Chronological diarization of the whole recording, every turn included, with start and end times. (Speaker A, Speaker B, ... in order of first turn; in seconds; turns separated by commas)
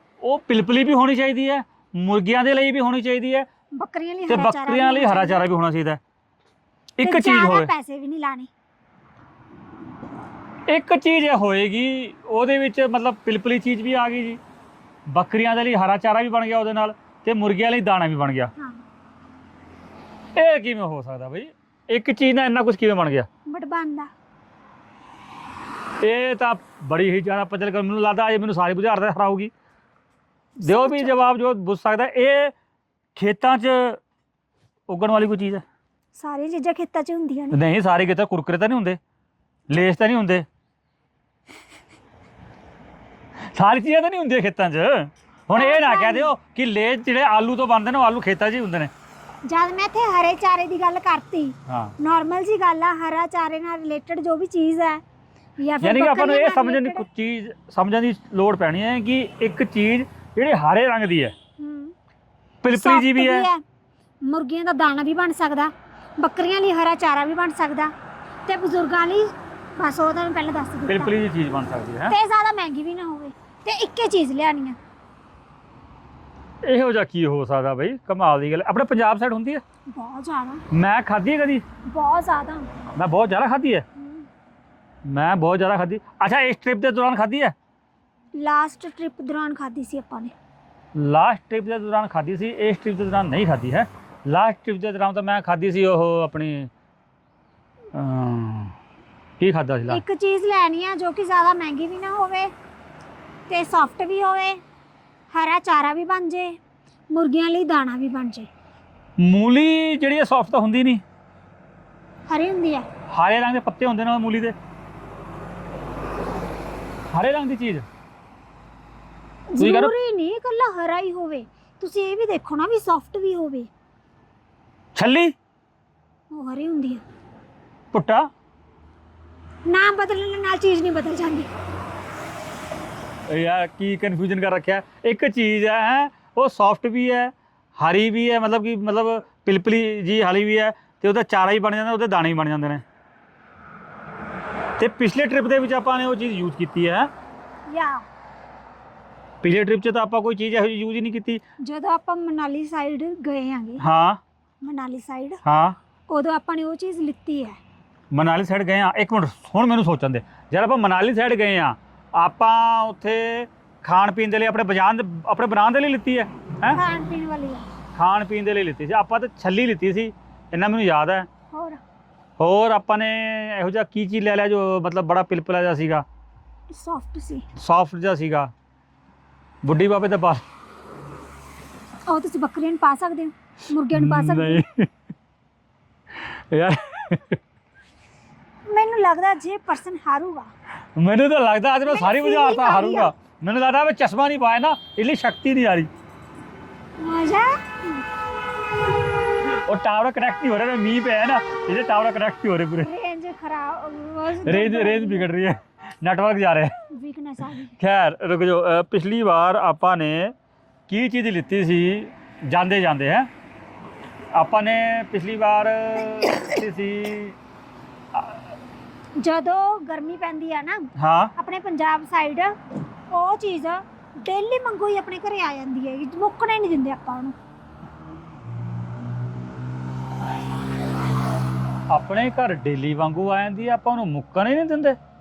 Speaker A: 0.2-3.5, Speaker B: 3.8-5.4, Speaker A: 4.3-6.0, Speaker A: 7.0-7.7, Speaker B: 7.0-8.5, Speaker A: 10.7-14.4, Speaker A: 15.1-18.5, Speaker A: 20.3-23.3, Speaker B: 23.5-24.1, Speaker A: 26.0-29.5, Speaker B: 30.6-31.2, Speaker A: 30.6-32.5, Speaker A: 33.1-34.0, Speaker A: 34.9-35.6, Speaker B: 36.1-37.6, Speaker A: 37.5-39.0, Speaker A: 39.7-40.5, Speaker A: 43.5-48.9, Speaker B: 45.5-46.3, Speaker B: 49.4-55.0, Speaker A: 51.7-51.9, Speaker B: 55.6-57.0, Speaker A: 55.8-61.3, Speaker B: 61.6-61.9, Speaker A: 62.6-63.5, Speaker B: 62.7-63.6, Speaker B: 64.2-67.9, Speaker B: 68.5-71.1, Speaker A: 70.9-72.1, Speaker B: 72.1-74.8, Speaker A: 76.6-79.6, Speaker B: 79.9-80.6, Speaker A: 80.7-81.6, Speaker B: 81.9-82.7, Speaker A: 82.9-83.8, Speaker B: 84.0-84.2, Speaker A: 85.0-87.5, Speaker B: 88.3-90.3, Speaker A: 90.9-96.7, Speaker A: 97.9-98.7, Speaker A: 99.4-100.0, Speaker B: 99.9-102.5, Speaker B: 103.5-104.6, Speaker B: 105.3-106.6, Speaker B: 107.1-108.5, Speaker A: 109.2-111.0, Speaker B: 112.3-112.9, Speaker A: 113.1-114.5, Speaker A: 117.1-117.8, Speaker B: 119.5-123.7, Speaker A: 119.6-119.9, Speaker A: 124.9-125.3, Speaker B: 126.3-127.0, Speaker A: 127.9-128.3, Speaker B: 129.7-131.5, Speaker A: 133.3-142.8, Speaker A: 144.8-147.1, Speaker B: 147.7-148.0, Speaker A: 149.4-151.4, Speaker B: 151.6-153.8, Speaker A: 153.8-154.2, Speaker B: 154.6-155.4, Speaker A: 155.4-155.8, Speaker B: 156.1-157.6, Speaker A: 158.1-166.8, Speaker B: 166.7-167.7, Speaker A: 167.9-171.3, Speaker B: 171.5-171.8, Speaker A: 172.4-176.0, Speaker B: 176.7-177.4, Speaker A: 177.6-178.5, Speaker A: 179.6-180.4, Speaker B: 182.1-184.6, Speaker A: 183.9-184.9, Speaker A: 186.2-187.4, Speaker B: 188.7-190.5, Speaker A: 190.9-195.9, Speaker B: 191.8-193.1, Speaker B: 197.0-198.0, Speaker A: 199.7-202.9, Speaker B: 202.8-205.3, Speaker A: 204.4-206.7, Speaker B: 206.9-207.8, Speaker A: 207.8-210.3, Speaker A: 210.9-213.3, Speaker A: 214.3-217.3, Speaker B: 219.2-220.8, Speaker A: 221.0-221.3, Speaker B: 221.3-222.5, Speaker B: 223.1-227.3, Speaker A: 231.9-235.0